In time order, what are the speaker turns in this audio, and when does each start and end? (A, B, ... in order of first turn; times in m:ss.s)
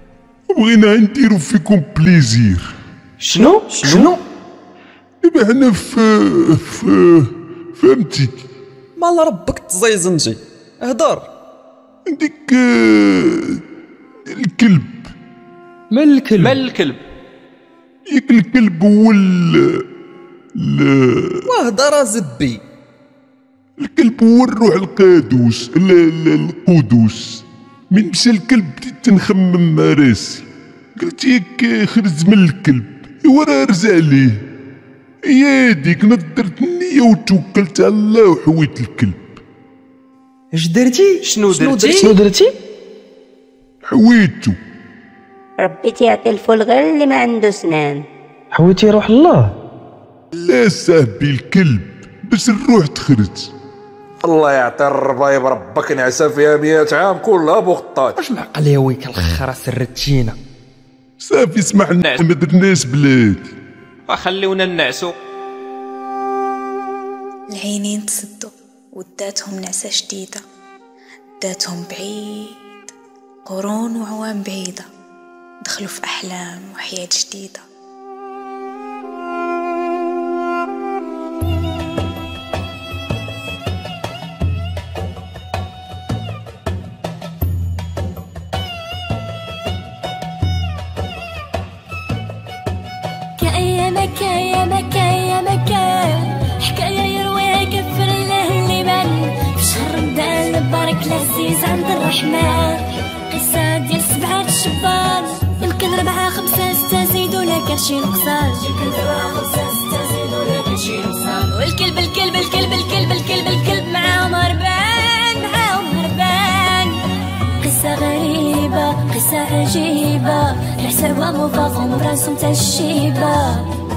0:00.5-0:02.7 A
0:03.2-0:04.2 B
0:03.4-0:04.1 C
0:05.2-0:08.4 A
0:09.0-0:11.3 D
0:12.1-0:13.6 A
0:14.3-0:15.0 A
0:15.9-0:16.6 E
0:16.4-0:17.0 B
0:18.1-0:19.7 A
0:20.6-0:21.5 A
0:21.5-0:22.6 D
0:23.8-0:30.5 A
0:31.0-0:34.4 A
0:35.3-0:39.2 A
0:40.5-0:42.2 E
0:41.2-0:42.1 B
0:42.0-0:42.5 C
0:43.9-0:44.6 A
0:45.6-0:48.1 F
0:48.5-0:49.5 C
0:50.5-0:53.5 A
0:54.2-0:58.2 G
0:58.2-1:00.4 E
1:01.2-1:03.5 A
1:02.0-1:02.2 B
1:04.1-1:05.1 B
1:07.5-1:10.4 H
1:11.4-1:12.6 H
1:13.5-1:14.8 H
1:15.6-1:17.6 H
1:33.4-1:57.0 I
1:57.6-2:03.7 I